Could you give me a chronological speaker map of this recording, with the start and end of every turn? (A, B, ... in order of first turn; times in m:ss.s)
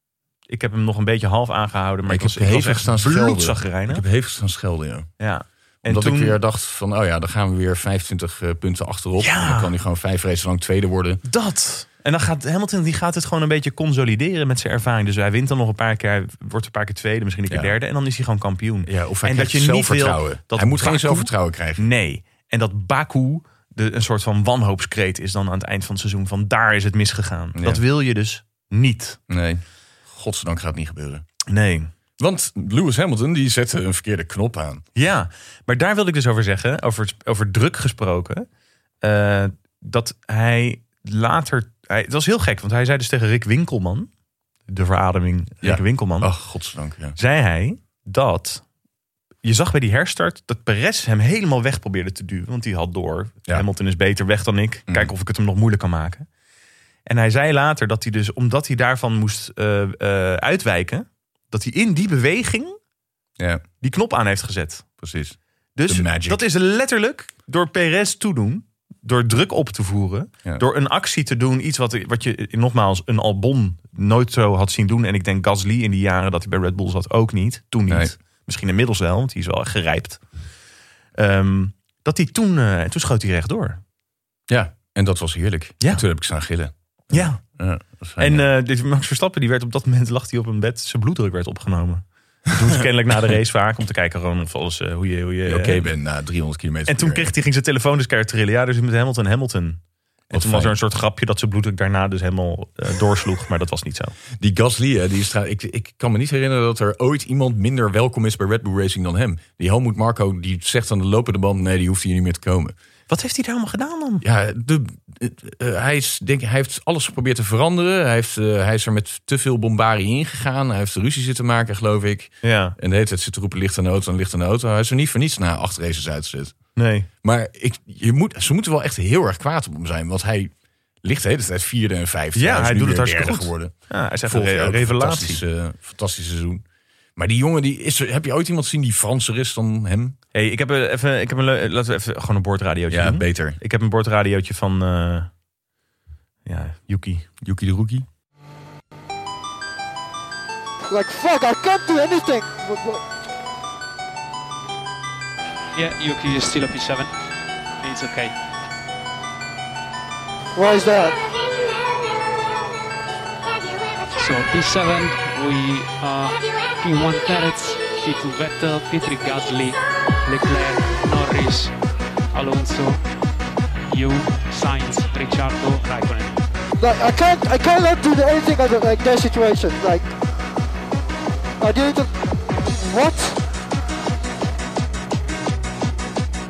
0:00.5-0:04.0 A
0:02.1-0:05.1 B
0:05.2-0:06.4 A
0:05.8-0:11.2 B
0:09.2-0:09.7 A
0:11.2-0:29.2 A
0:17.5-0:17.8 B
0:18.8-0:21.8 B
0:27.5-0:27.8 B
0:29.3-0:31.2 B
0:31.5-0:31.9 A
0:32.2-0:34.8 B
0:34.9-0:38.5 A
0:39.0-0:44.1 A
0:44.7-0:46.3 A
0:45.6-0:47.2 B
0:47.2-0:48.6 A
0:49.4-0:56.3 A
0:57.0-1:02.8 A
1:03.8-1:04.8 A
1:05.0-1:06.4 B
1:05.8-1:20.2 A
1:17.9-1:18.1 B
1:21.2-1:23.8 A
1:24.5-1:28.5 B
1:27.1-1:27.4 A
1:28.2-1:35.9 A
1:35.4-1:37.3 B
1:36.9-1:44.2 A
1:40.3-1:40.8 B
1:44.4-1:52.7 B
1:53.1-1:54.2 A
1:54.2-2:06.5 B
2:02.4-2:02.8 A
2:06.8-2:07.1 A
2:07.2-2:10.5 B
2:11.0-2:16.6 B
2:12.3-2:15.4 A
2:17.2-2:20.2 B
2:20.3-2:25.3 A
2:22.9-2:23.6 B
2:26.4-2:27.3 A
2:27.4-2:28.0 B
2:30.9-2:33.0 C
2:35.7-2:37.1 D
2:37.8-2:38.3 D
2:40.5-2:41.2 C
2:44.1-2:51.7 D
2:52.3-2:53.0 D
2:53.9-2:56.3 D
2:56.8-3:00.1 C
3:01.6-3:03.4 C